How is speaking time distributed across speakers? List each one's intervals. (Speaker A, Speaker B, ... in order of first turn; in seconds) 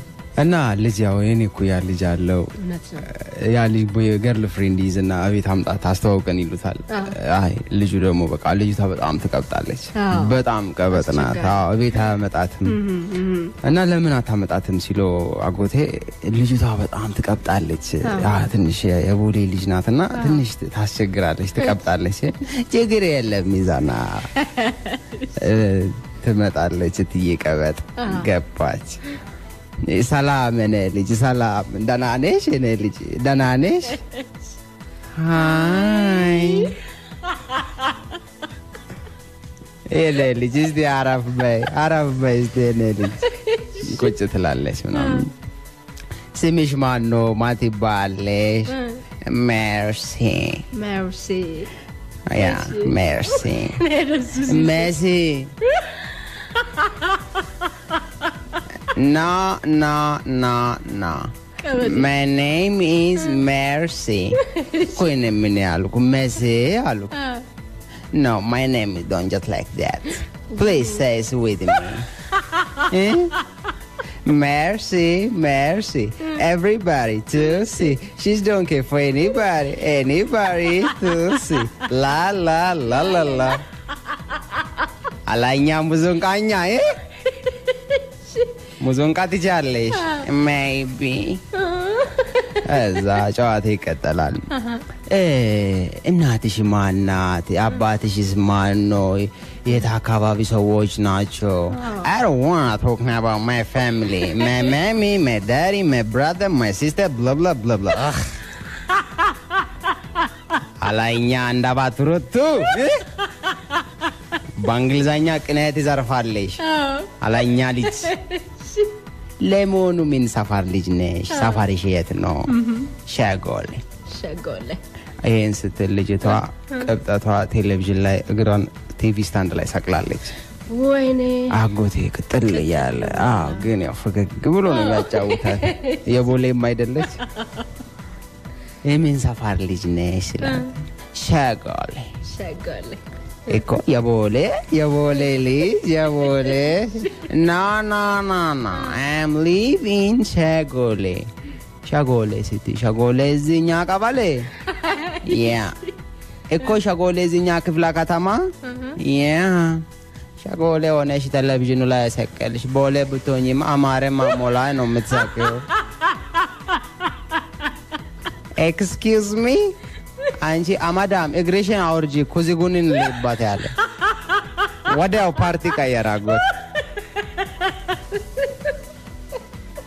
Speaker A: 0.4-12.8, 13.6-24.4, 25.3-29.0, 29.8-34.0, 35.1-36.8, 39.9-45.3, 46.3-50.7, 52.3-53.8, 54.4-55.5, 58.8-67.1, 68.1-72.1, 72.8-73.4, 74.2-83.6, 85.2-87.0, 88.8-91.4, 92.6-108.4, 110.8-113.1, 114.5-116.6, 117.2-118.1, 119.4-123.8, 125.2-130.4, 131.5-137.2, 138.8-142.1, 143.5-151.3, 151.8-154.5, 155.2-155.8, 156.5-159.8, 160.4-165.7, 168.6-169.7, 170.3-173.8, 174.8-176.5
Speaker B: 2.6-3.1, 6.9-7.2, 9.9-10.4, 10.9-11.6, 12.7-13.5, 18.0-18.5, 20.1-20.4, 24.4-25.4, 28.0-28.3, 35.3-38.0, 43.2-44.0, 44.9-45.2, 48.7-49.0, 50.7-51.7, 52.4-54.9, 55.6-57.5, 61.6-62.1, 64.4-65.0, 67.1-67.5, 82.9-83.6, 87.5-88.4, 89.9-90.2, 91.5-93.1, 94.5-94.8, 101.7-102.1, 116.6-117.2, 117.8-118.9, 121.3-121.7, 122.5-122.9, 124.1-124.8, 130.7-131.6, 132.6-133.7, 134.7-136.1, 137.2-137.6, 140.4-140.7, 142.2-143.0, 146.3-147.1, 154.7-155.6, 158.7-159.0, 174.0-174.7, 176.5-178.8